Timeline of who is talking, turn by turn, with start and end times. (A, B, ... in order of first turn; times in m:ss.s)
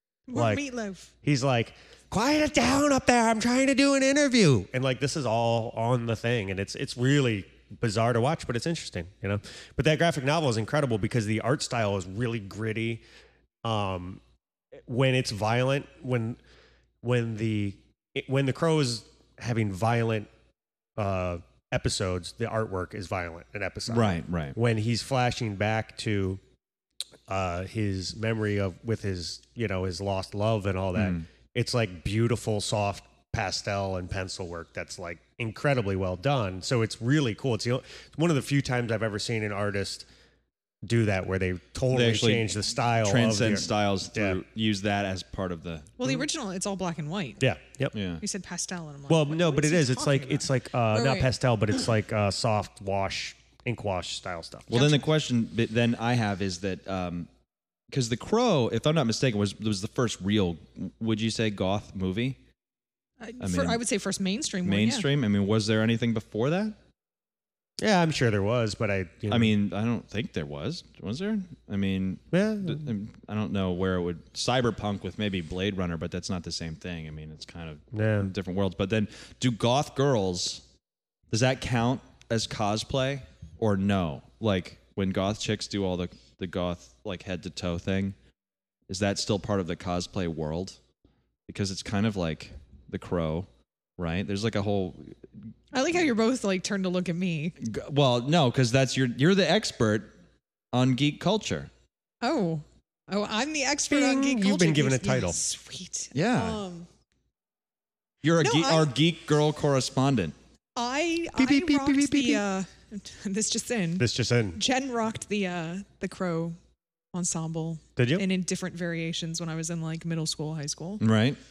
0:00.3-0:01.1 A
0:00.3-0:00.6 B
0:01.2-0:13.0 B
0:13.6-0:14.2 B
0:14.8-0:16.4 B
0:17.0-0:20.3 B
0:21.0-0:26.4 B
0:23.9-0:24.6 C
0:27.3-0:40.1 B
0:31.0-0:31.2 C
0:40.8-0:44.4 B
0:41.9-0:42.5 C
0:43.0-0:46.0 C
0:46.0-0:47.4 A
0:47.4-0:47.9 B
0:47.9-0:48.2 C
0:48.2-0:51.3 A
0:49.1-0:54.8 B
0:54.7-0:57.3 C
0:54.7-0:55.0 A
0:57.9-1:02.4 C
1:03.2-1:05.1 A
1:03.4-1:03.8 C
1:04.6-1:06.8 C
1:07.8-1:09.5 B
1:09.3-1:20.6 C
1:12.3-1:12.9 B
1:17.9-1:18.3 B
1:21.3-1:28.1 C
1:28.9-1:30.8 C
1:31.5-1:35.2 C
1:35.7-1:37.5 A
1:37.6-1:40.1 C
1:40.7-1:41.7 C
1:42.2-1:46.9 A
1:43.9-1:45.4 B
1:46.1-1:46.6 C
1:48.2-1:50.3 C
1:48.4-1:48.9 A
1:50.8-1:56.6 A
1:51.4-1:52.4 B
1:54.0-1:54.6 B
1:57.1-2:01.0 A
1:58.0-1:58.2 B
2:01.0-2:01.4 C